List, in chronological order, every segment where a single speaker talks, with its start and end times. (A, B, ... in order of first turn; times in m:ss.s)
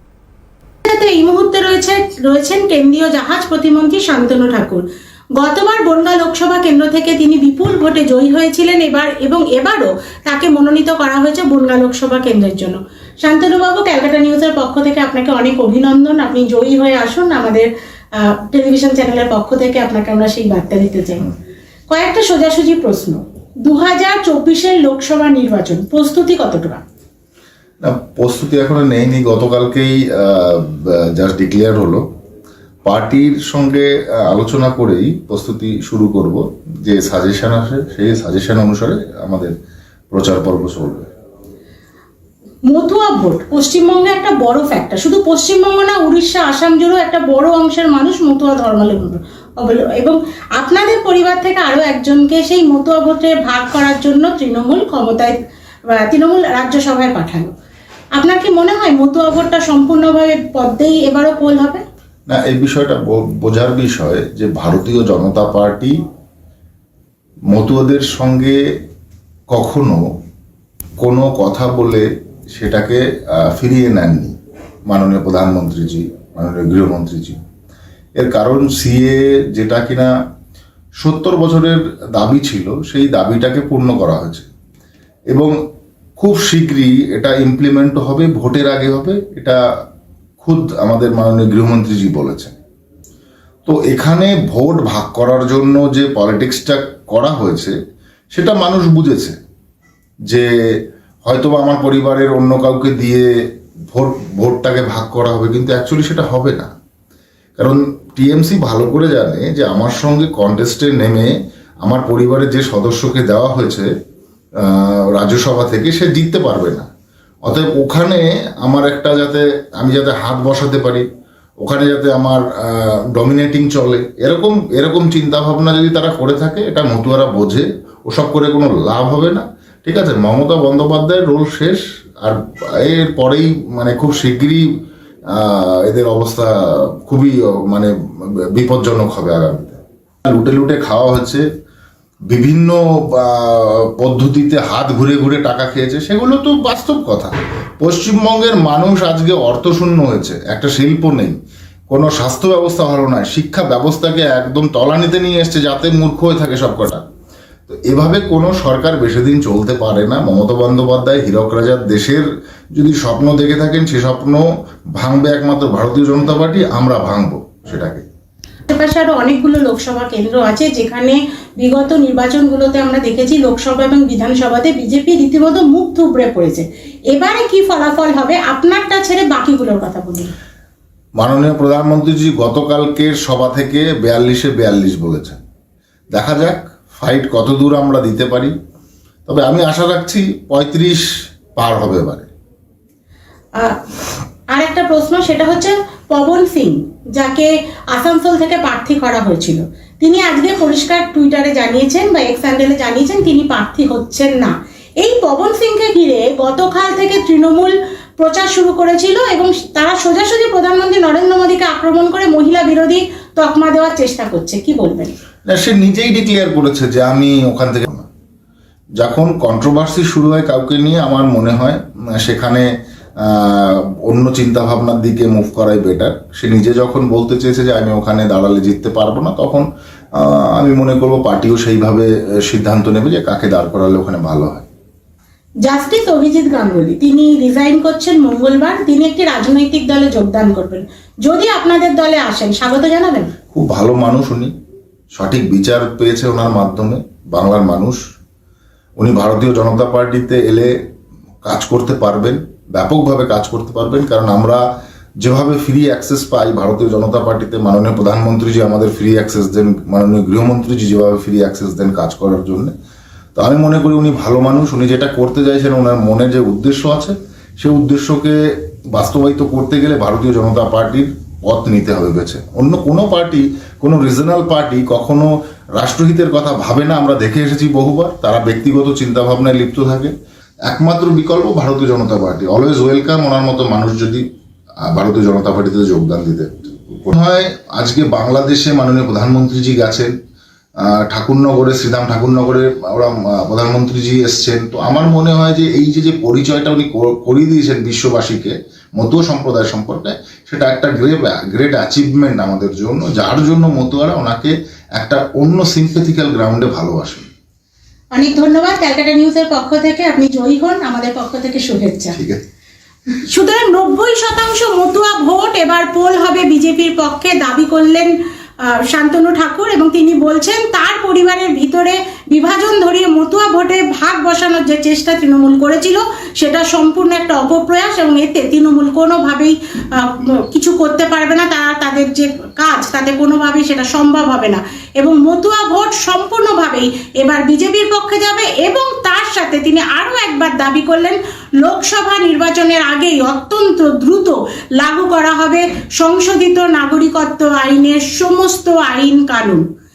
0:00.8-0:04.8 A
0:05.4-0:21.3 A
0:21.9-0:26.8 A
0:27.8-0:32.0 B
0:32.8-0:39.5 B
0:40.1-0:41.1 B
0:42.7-0:55.4 A
0:55.9-0:57.5 A
0:58.2-1:01.8 A
1:02.3-1:06.0 B
1:07.5-1:08.6 B
1:09.5-1:10.0 B
1:11.0-1:14.4 B
1:14.9-1:17.4 B
1:18.2-1:20.1 B
1:21.0-1:24.5 B
1:26.2-1:29.6 B
1:30.4-1:32.5 B
1:33.6-1:37.7 B
1:38.3-1:39.3 B
1:41.2-1:43.3 B
1:43.9-1:46.7 B
1:47.6-1:53.9 B
1:54.6-1:56.9 B
1:57.4-2:01.0 B
2:01.6-2:14.6 B
2:15.3-2:21.4 B
2:22.3-2:31.4 B
2:31.9-2:37.0 B
2:37.7-2:44.4 B
2:45.0-2:48.0 B
2:48.7-3:00.3 A
3:01.2-3:05.4 B
3:06.1-3:08.5 B
3:09.2-3:11.0 B
3:11.6-3:12.3 B
3:14.5-3:35.1 A
3:35.5-3:38.1 B
3:39.0-3:42.7 B
3:43.2-3:54.7 B
3:55.6-4:03.3 A
4:03.5-4:04.5 B
4:05.1-4:08.0 B
4:09.0-4:10.7 B
4:11.4-4:14.6 B
4:15.2-4:22.7 B
4:23.3-4:40.1 B
4:40.7-4:44.2 B
4:44.8-4:50.1 B
4:50.8-5:07.3 B
5:08.1-5:12.2 A
5:12.2-5:12.4 B
5:13.3-5:49.6 A